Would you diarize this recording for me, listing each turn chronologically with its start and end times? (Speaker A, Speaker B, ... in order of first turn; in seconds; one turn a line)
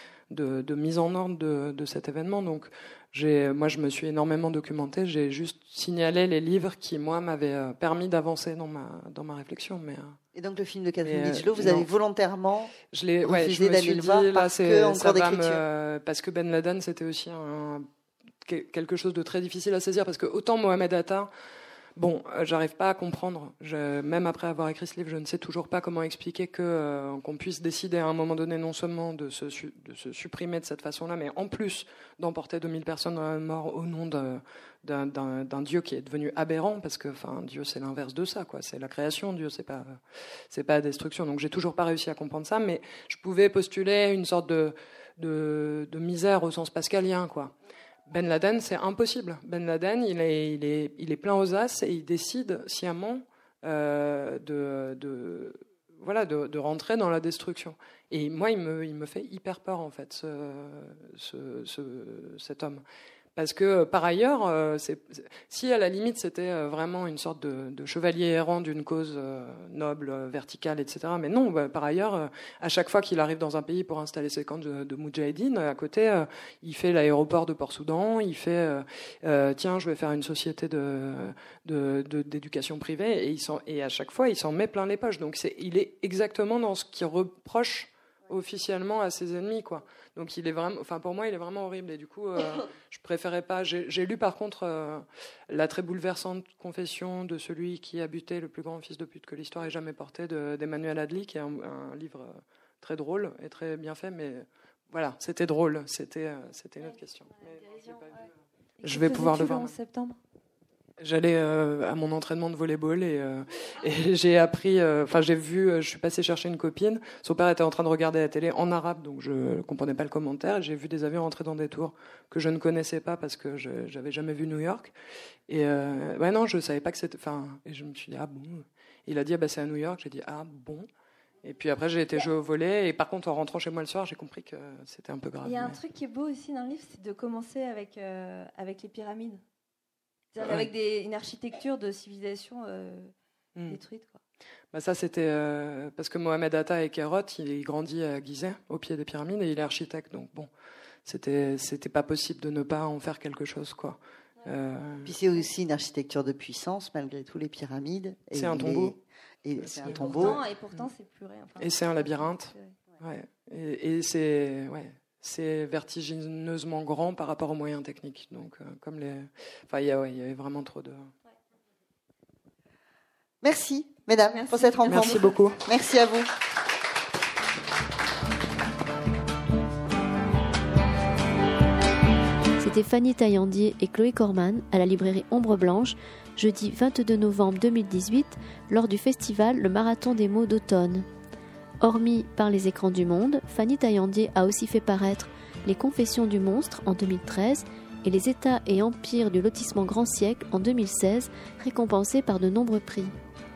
Speaker A: 0.3-10.2
Speaker B: 10.3-15.6
Speaker A: 11.0-11.9
Speaker A: 12.9-17.9
Speaker A: 18.4-21.3
Speaker A: 21.9-47.5
Speaker A: 48.1-62.8
Speaker A: 63.4-108.2
Speaker C: 107.4-108.3
Speaker C: 108.8-110.2
Speaker A: 108.8-109.7
Speaker A: 111.0-124.9
Speaker A: 125.5-130.9
Speaker A: 131.4-135.8
Speaker C: 135.4-139.4
Speaker C: 140.3-143.1
Speaker A: 140.4-140.7
Speaker C: 143.7-144.2
Speaker A: 144.7-150.5
Speaker A: 151.0-155.1
Speaker B: 155.0-160.4
Speaker A: 158.3-158.9
Speaker A: 159.8-160.4
Speaker C: 159.8-162.7
Speaker A: 161.6-171.1
Speaker B: 173.4-176.3
Speaker C: 174.3-175.5
Speaker A: 174.8-175.6
Speaker D: 182.6-191.1
Speaker D: 191.8-203.1